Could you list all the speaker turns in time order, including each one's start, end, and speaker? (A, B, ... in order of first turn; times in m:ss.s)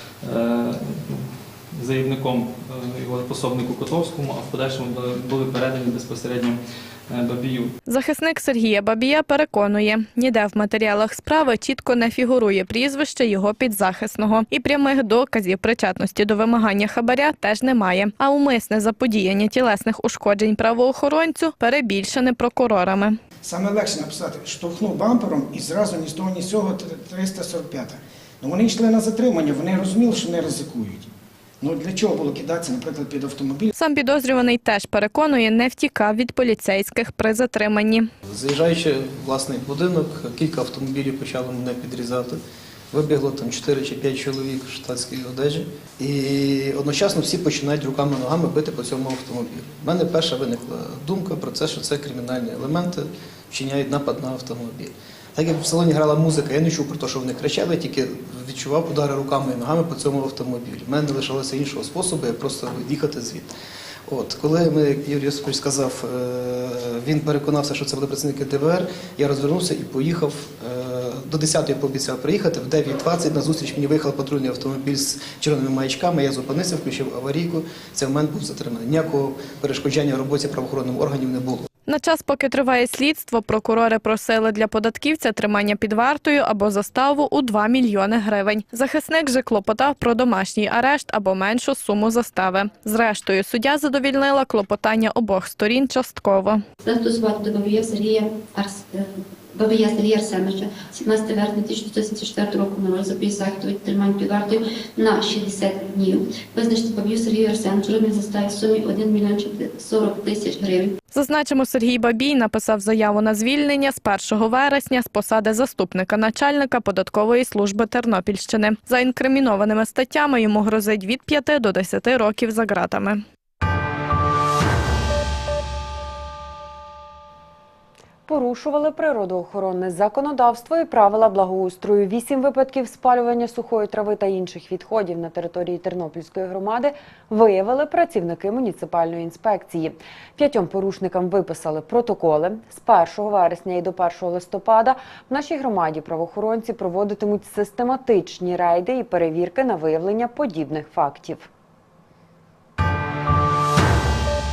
0:00.2-0:07.7 A
0:07.8-0:23.2 B
0:23.4-0:31.1 C
0:31.6-0:33.7 C
0:33.8-0:38.1 B
0:38.2-0:42.4 D
0:42.9-1:03.5 D
1:04.1-1:21.7 D
1:21.8-1:36.6 B
1:36.8-1:39.0 E
1:39.5-1:50.9 E
1:51.1-2:03.2 B
2:08.3-2:31.5 F